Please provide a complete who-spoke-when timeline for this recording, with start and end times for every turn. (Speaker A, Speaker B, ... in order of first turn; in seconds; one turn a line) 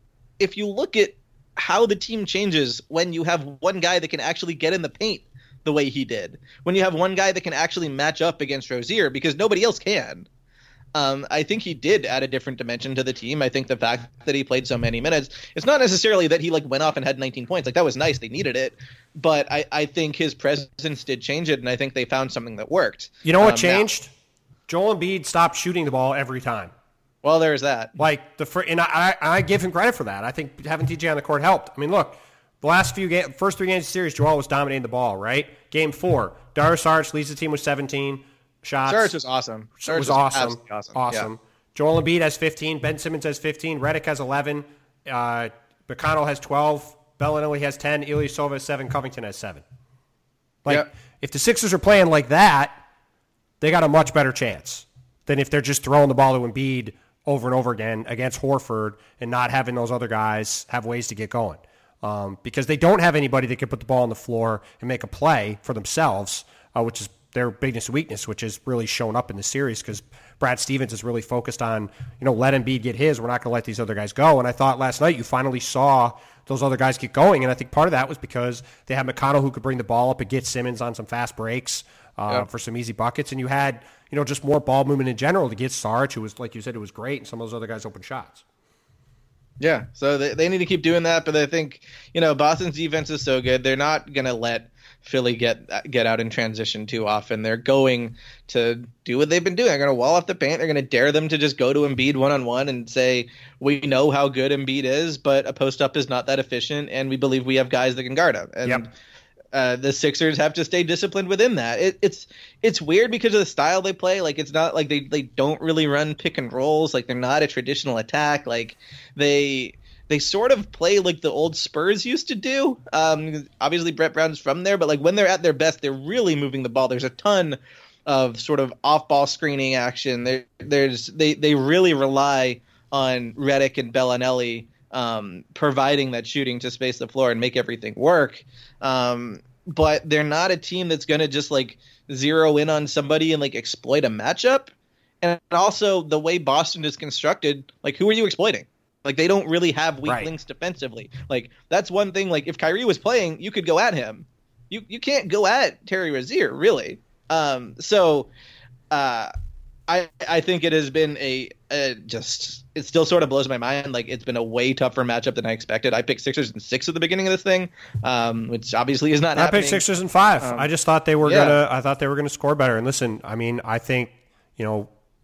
Speaker A: 0.4-10.3
Speaker A: 10.9-23.9
Speaker B: 23.2-24.1
Speaker B: 24.7-26.7
Speaker A: 27.2-28.0
Speaker B: 28.0-39.2
Speaker A: 38.9-41.3
Speaker B: 39.8-49.6
Speaker B: 50.6-52.8
Speaker B: 53.6-88.4
Speaker A: 89.6-108.9
Speaker A: 109.5-144.7
Speaker A: 145.2-158.3
Speaker A: 158.9-159.3
Speaker A: 159.9-169.8
Speaker B: 169.3-174.9
Speaker A: 170.4-170.7
Speaker A: 171.2-171.6